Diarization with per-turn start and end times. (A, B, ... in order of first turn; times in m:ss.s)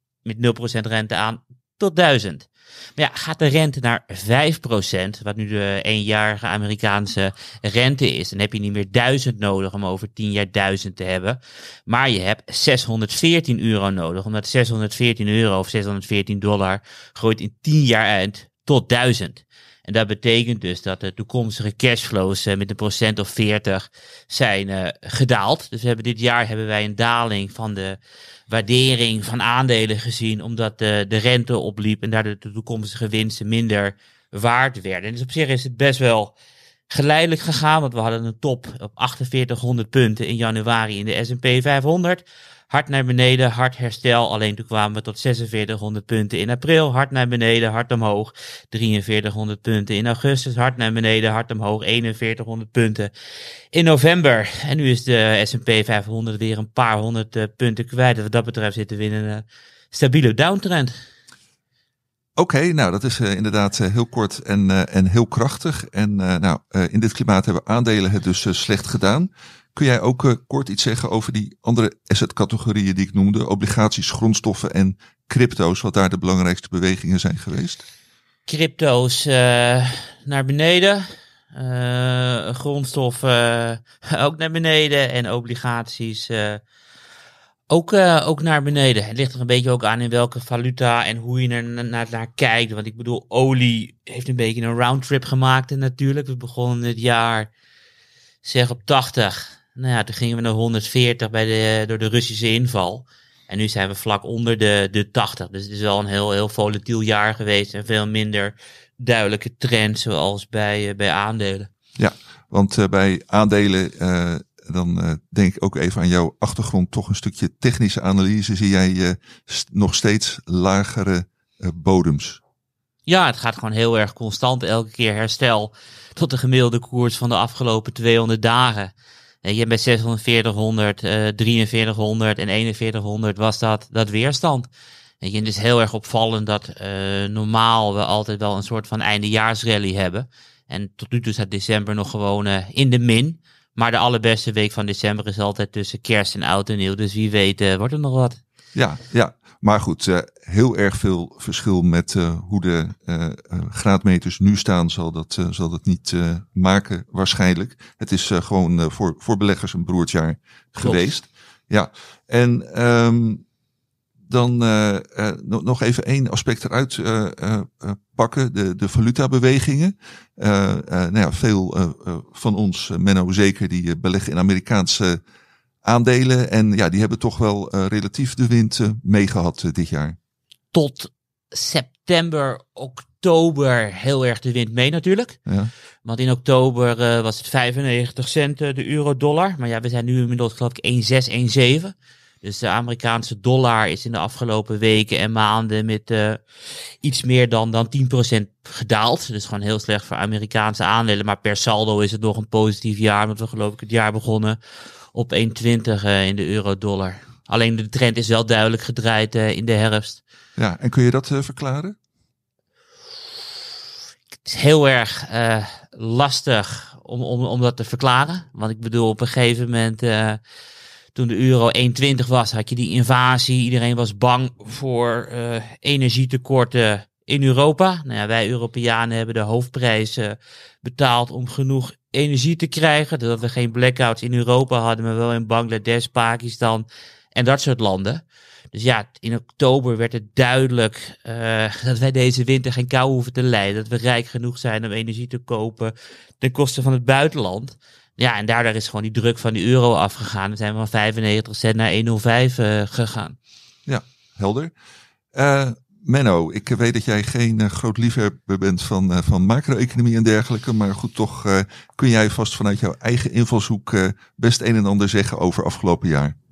0:00.2-0:28.0 A
0:28.5-0:36.3 A
0:36.9-0:53.1 A
0:53.7-1:00.9 A
1:02.4-1:17.8 B
1:18.5-1:26.6 A
1:27.7-1:37.5 A
1:38.4-1:51.7 A
1:52.0-2:02.4 B
2:03.0-2:08.9 A
2:09.4-2:14.7 A
2:15.2-2:28.4 A
2:28.7-2:43.4 B
2:40.8-2:41.0 A
2:44.3-2:55.2 B
2:55.8-3:00.2 B
3:00.7-3:05.4 A
3:06.0-3:16.4 A
3:17.0-3:24.6 A
3:25.1-3:30.2 A
3:30.6-3:31.9 B
3:34.4-3:40.4 A
3:41.1-4:13.4 A
4:13.8-4:14.7 B
4:15.3-4:26.3 B